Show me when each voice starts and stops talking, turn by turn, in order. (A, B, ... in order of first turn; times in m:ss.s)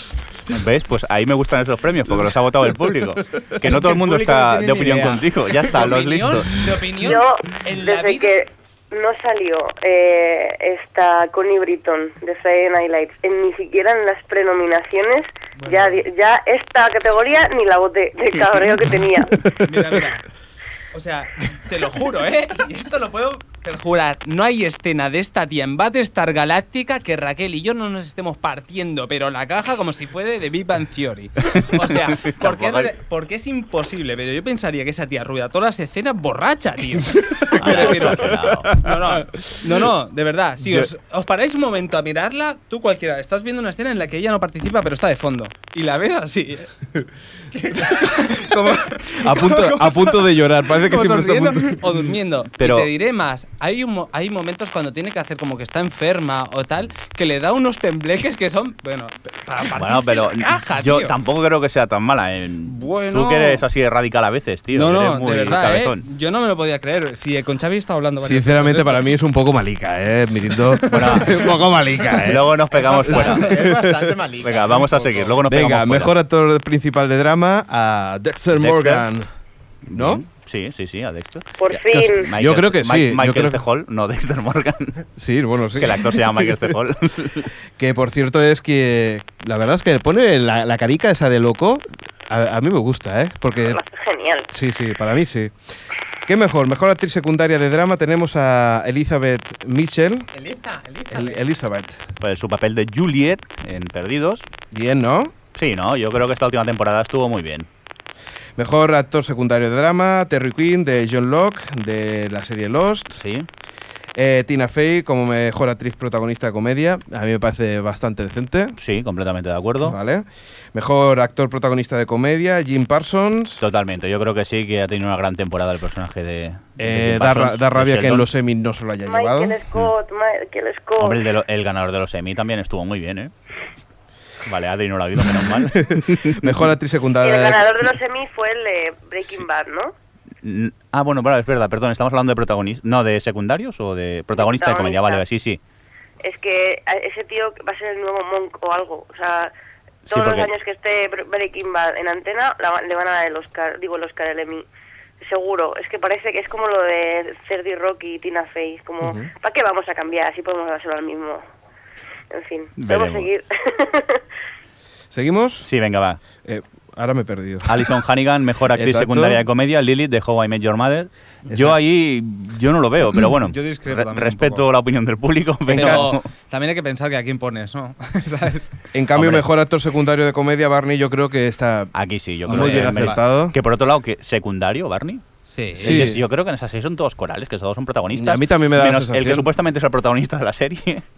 0:00.5-0:06.5 A
0:03.6-0:08.3 B
0:07.0-0:19.5 C
0:15.6-0:16.0 B
0:19.6-0:20.3 B
0:20.9-0:46.7 B
0:31.7-0:32.9 A
0:37.5-0:38.8 A
0:47.5-1:01.2 B
0:48.4-0:52.1 D
0:52.6-0:52.9 A
0:59.8-1:06.0 A
1:02.6-1:03.6 B
1:04.7-1:09.1 B
1:08.2-1:12.5 D
1:10.7-1:12.3 B
1:10.9-1:11.4 A
1:12.2-1:13.5 A
1:12.7-1:15.4 E
1:13.4-1:14.2 D
1:14.4-1:16.1 A
1:15.5-1:19.3 D
1:18.6-1:19.0 A
1:19.9-1:21.5 A
1:19.9-1:20.2 D
1:21.6-1:22.3 C
1:21.7-1:23.6 D
1:22.2-1:25.0 A
1:25.2-1:26.7 D
1:25.8-1:27.5 A
1:27.8-1:33.8 D
1:33.6-1:34.5 C
1:34.5-1:35.5 D
1:36.2-1:40.3 D
1:40.3-1:41.4 E
1:41.1-1:42.0 D
1:42.2-1:44.5 A
1:44.7-1:45.3 D
1:45.5-1:47.7 A
1:48.6-1:53.2 D
1:53.1-1:53.5 A
1:54.2-1:58.8 D
1:58.8-2:00.0 A
1:59.8-2:03.6 D
2:03.6-2:08.2 A
2:06.8-2:09.6 D
2:09.0-2:11.2 C
2:11.0-2:13.3 A
2:14.4-2:16.6 A
2:15.7-2:17.9 D
2:17.2-2:19.9 C
2:20.4-2:25.6 A
2:24.3-2:25.2 C
2:26.2-2:29.5 C
2:30.1-2:30.5 A
2:30.1-2:34.6 C
2:35.2-2:41.4 C
2:39.0-2:39.3 D
2:42.3-2:44.2 C
2:42.8-2:43.3 A
2:45.1-2:45.7 D
2:45.6-2:46.2 A
2:46.4-2:48.0 D
2:47.7-2:56.3 A
2:48.7-2:49.4 D
2:51.5-2:51.8 D
2:53.4-2:54.6 B
2:55.7-2:58.7 B
2:55.7-2:56.1 D
2:58.9-3:01.9 D
2:59.1-2:59.4 A
3:01.9-3:05.2 A
3:02.4-3:03.5 D
3:02.5-3:03.2 B
3:05.5-3:06.1 B
3:05.7-3:11.0 A
3:05.8-3:06.2 D
3:08.2-3:09.5 D